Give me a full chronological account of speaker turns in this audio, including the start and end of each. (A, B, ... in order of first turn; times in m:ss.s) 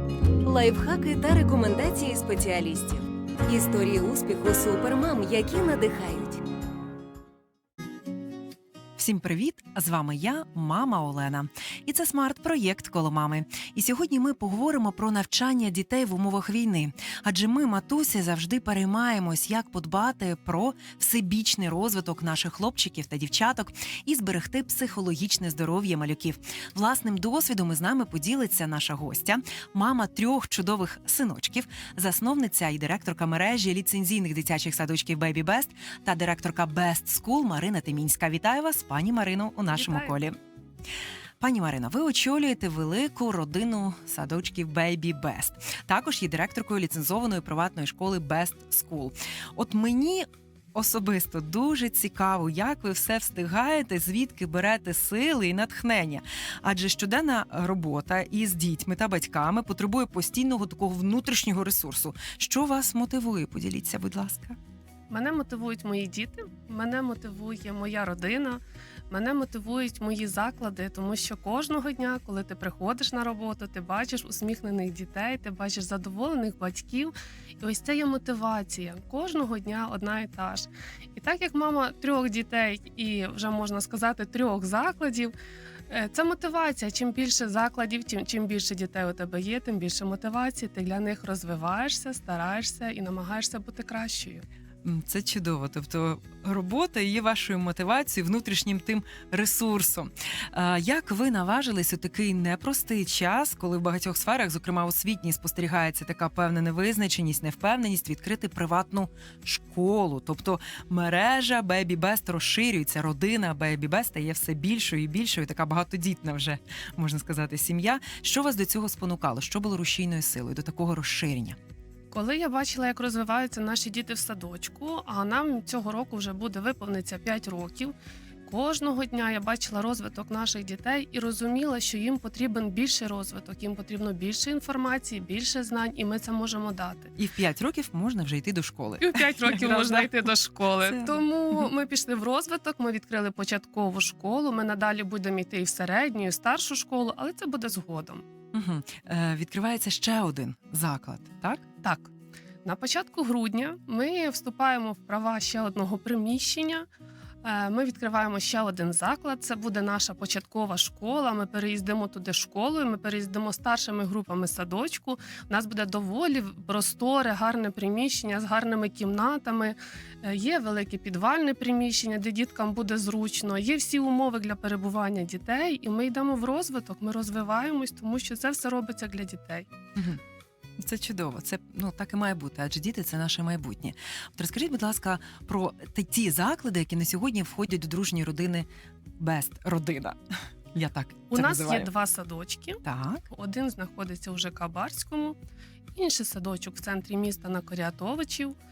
0:00.4-0:06.4 A
0:09.0-0:40.4 B
0:39.7-0:40.1 C
0:41.4-1:04.6 B
1:05.1-1:25.3 C
1:25.9-1:34.4 C
1:34.8-2:01.6 B
2:02.1-2:07.9 C
2:08.4-2:17.1 C
2:17.2-2:20.2 B
2:19.0-2:28.2 C
2:20.8-2:21.6 B
2:28.5-2:31.6 B
2:31.8-2:32.1 C
2:32.6-2:36.9 C
2:37.4-2:59.7 C
3:00.8-3:08.7 B
3:09.2-3:10.2 B
3:10.7-3:11.9 B
3:11.3-3:15.4 C
3:12.8-3:13.2 B
3:15.9-3:18.5 C